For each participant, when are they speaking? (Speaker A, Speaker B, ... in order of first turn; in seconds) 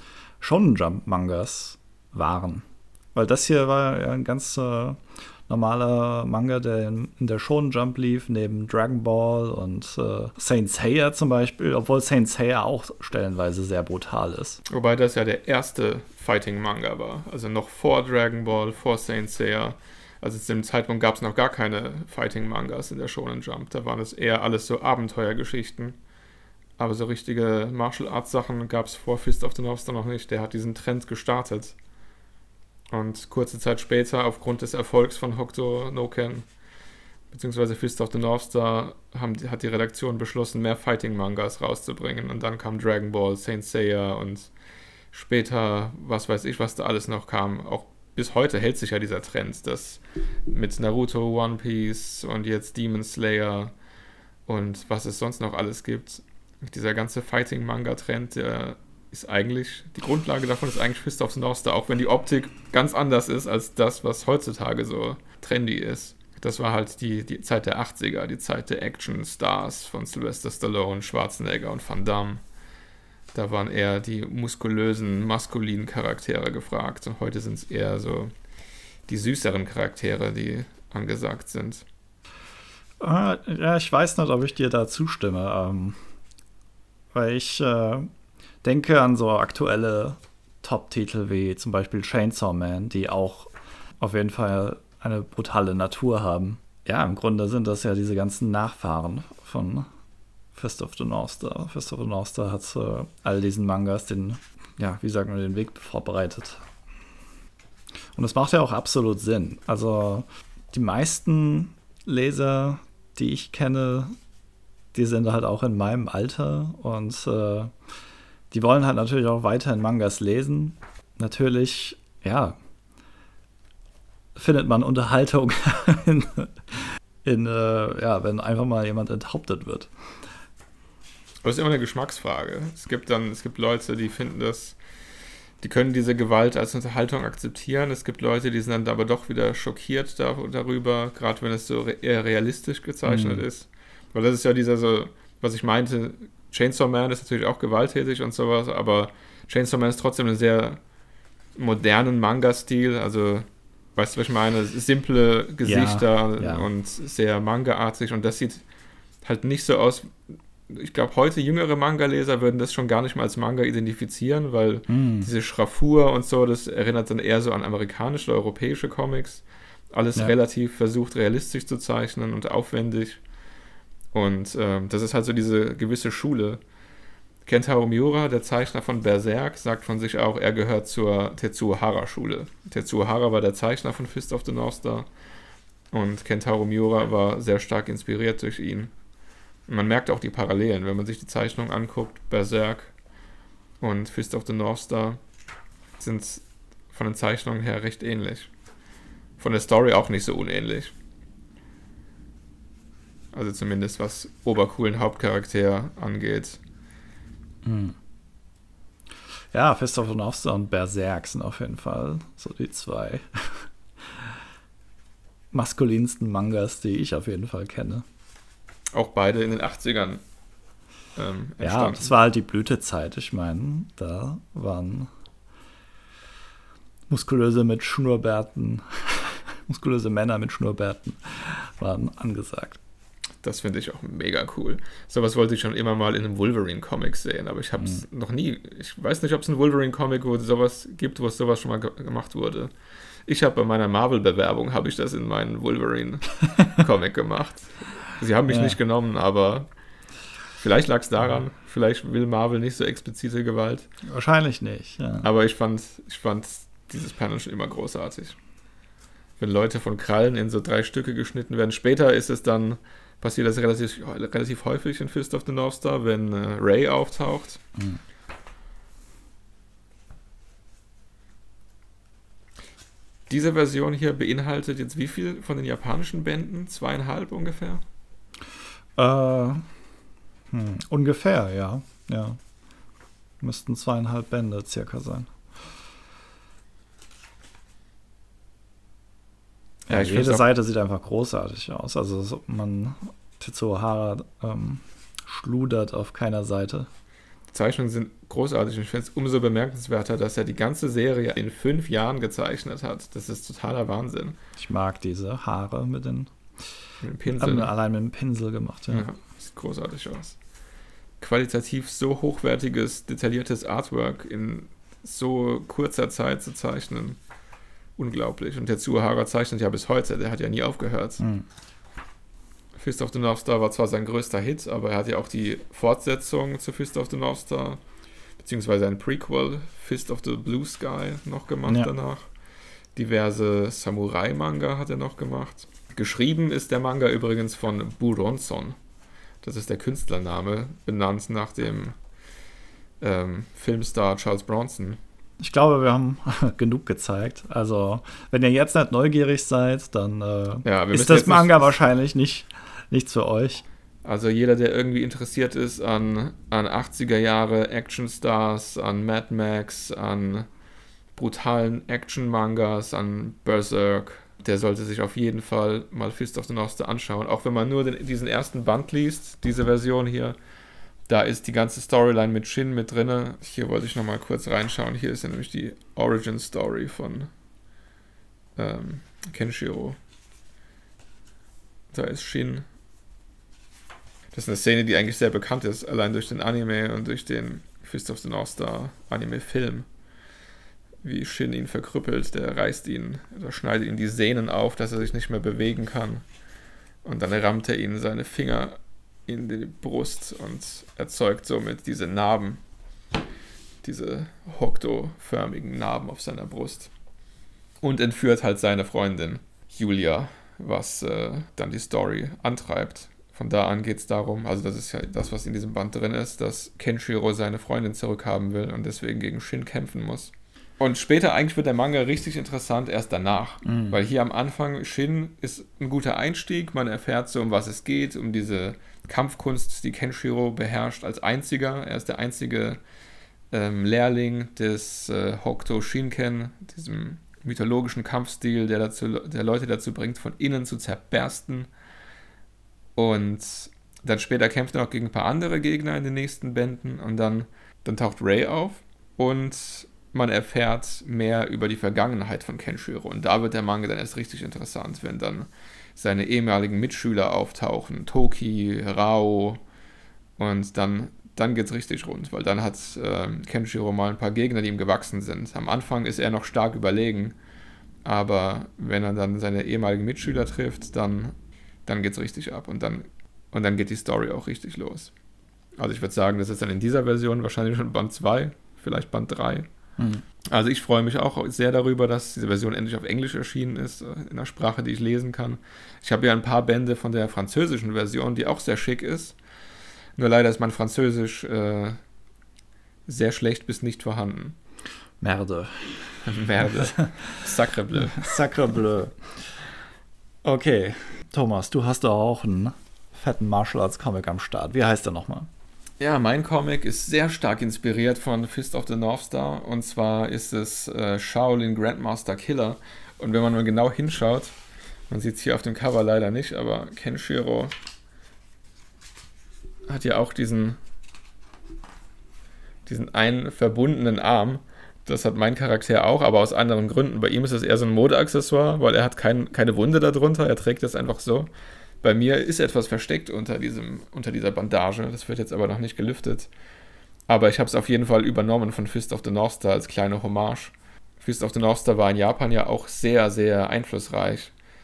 Speaker A: 0.4-14.6, 83.0-86.0, 87.1-88.1, 88.6-93.5, 94.0-99.9, 100.5-106.6, 108.1-114.1, 114.9-117.7, 118.5-122.6, 124.3-129.9, 143.0-143.4, 155.6-156.7, 164.9-165.3, 207.6-207.9, 209.5-213.7, 215.5-218.0, 221.6-225.1, 227.1-232.8, 237.8-238.0, 248.5-248.8, 254.1-255.3, 279.0-279.7, 280.5-282.4, 283.4-285.3, 289.9-296.9, 304.6-306.3, 307.3-309.1, 321.2-321.4, 331.6-331.9, 345.4-353.6, 423.6-424.0, 495.2-496.0, 496.6-497.2, 497.9-499.4, 500.4-505.5
Speaker B: 14.7-26.0, 26.8-31.8, 32.9-36.5, 37.3-44.5, 45.1-53.7, 54.5-72.4, 73.3-78.3, 79.1-81.8, 131.4-134.8, 135.6-150.8, 151.6-158.6, 159.2-160.2, 160.7-173.2, 174.1-176.6, 177.4-185.1, 185.9-188.9, 189.7-192.9, 193.8-195.2, 196.0-198.5, 199.4-200.9, 203.3-206.6, 218.9-220.2, 221.2-222.1, 233.4-242.7, 243.2-249.7, 250.6-253.8, 255.2-258.4, 259.4-267.6, 273.3-277.8, 289.9-290.4, 297.5-304.4, 307.0-307.7, 308.9-310.4, 311.2-317.2, 318.0-321.2, 322.8-327.8, 328.4-332.2, 332.9-338.8, 339.4-341.9, 343.0-345.0, 350.6-351.7, 354.0-360.5, 361.1-370.4, 371.1-377.3, 378.6-380.0, 381.9-382.7, 384.3-389.9, 391.0-396.2, 397.0-398.8, 399.3-402.6, 403.8-406.9, 407.8-432.8, 433.5-441.7, 442.9-459.6, 460.4-467.4, 468.0-471.3, 471.9-475.1, 475.8-479.7, 480.5-489.4, 490.2-492.0, 493.1-494.6, 496.2-498.4, 506.0-514.5, 515.1-517.7, 519.9-520.8, 522.9-531.5, 532.0-536.5, 537.3-544.5